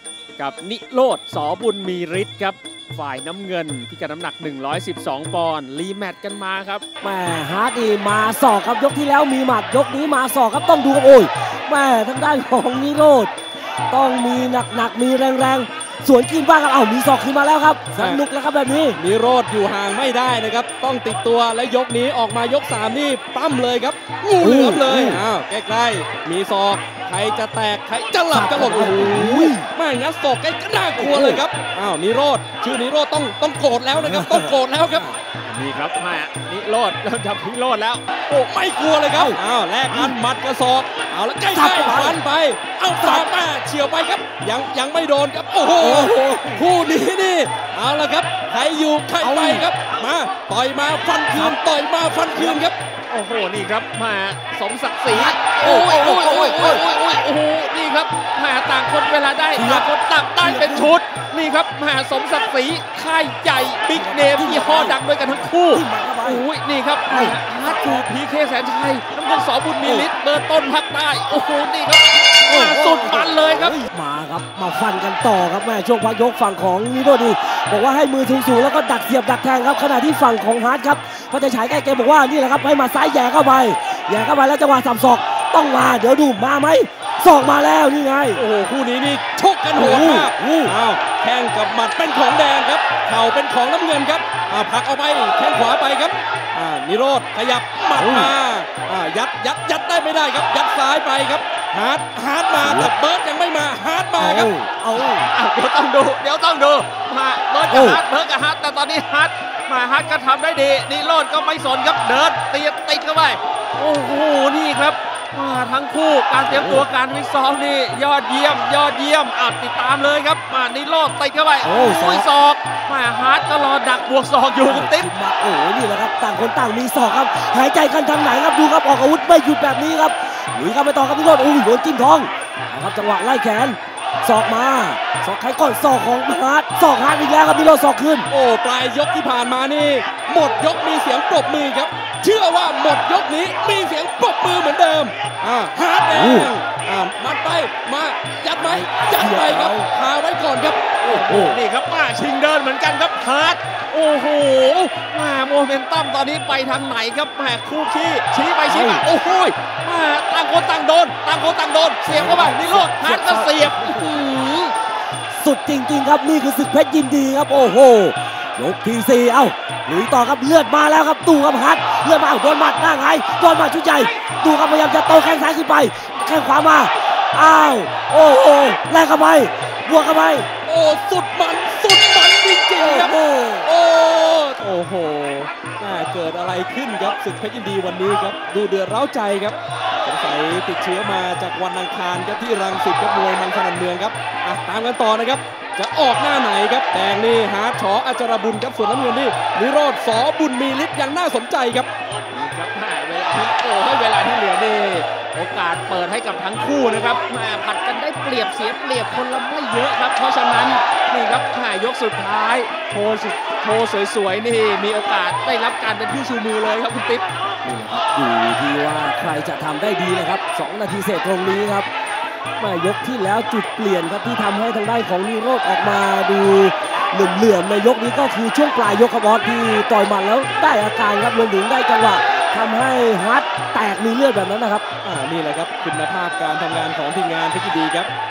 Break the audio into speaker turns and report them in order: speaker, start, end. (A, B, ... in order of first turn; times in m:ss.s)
0:00.4-0:06.8 A
0:07.0-0:13.3 B
0:13.9-0:19.0 B
0:18.0-0:18.2 C
0:19.0-0:35.1 C
0:24.4-0:25.2 B
0:28.3-0:29.7 B
0:31.0-0:31.4 B
0:33.9-0:35.1 B
0:35.4-0:38.5 A
0:38.4-0:52.7 C
0:39.1-0:40.1 B
0:41.5-0:42.2 B
0:43.0-0:43.3 B
0:45.8-0:46.6 B
0:49.2-0:49.6 B
0:53.1-1:13.8 A
0:55.1-0:56.8 B
0:59.5-0:59.9 B
1:00.4-1:00.9 B
1:03.9-1:05.0 B
1:05.7-1:06.4 B
1:07.1-1:08.1 B
1:09.8-1:10.1 B
1:12.5-1:28.4 B
1:28.3-1:44.5 C
1:29.8-1:30.8 B
1:37.9-1:38.3 B
1:42.6-1:42.9 B
1:44.2-1:45.3 B
1:45.0-2:05.0 A
1:47.7-1:48.0 B
1:56.5-1:56.9 B
2:01.6-2:02.3 B
2:04.6-2:18.3 B
2:18.3-2:31.0 C
2:26.1-2:26.5 B
2:28.6-2:29.9 B
2:31.0-2:31.6 B
2:31.0-2:44.7 A
2:38.6-2:39.1 B
2:42.0-2:44.2 B
2:45.3-3:00.5 B
3:00.6-3:04.6 C
3:02.8-3:03.7 B
3:04.6-3:05.5 A
3:05.8-3:21.9 C
3:22.3-3:37.2 A
3:37.6-3:41.9 B
3:42.6-3:54.8 B
3:55.0-3:58.1 C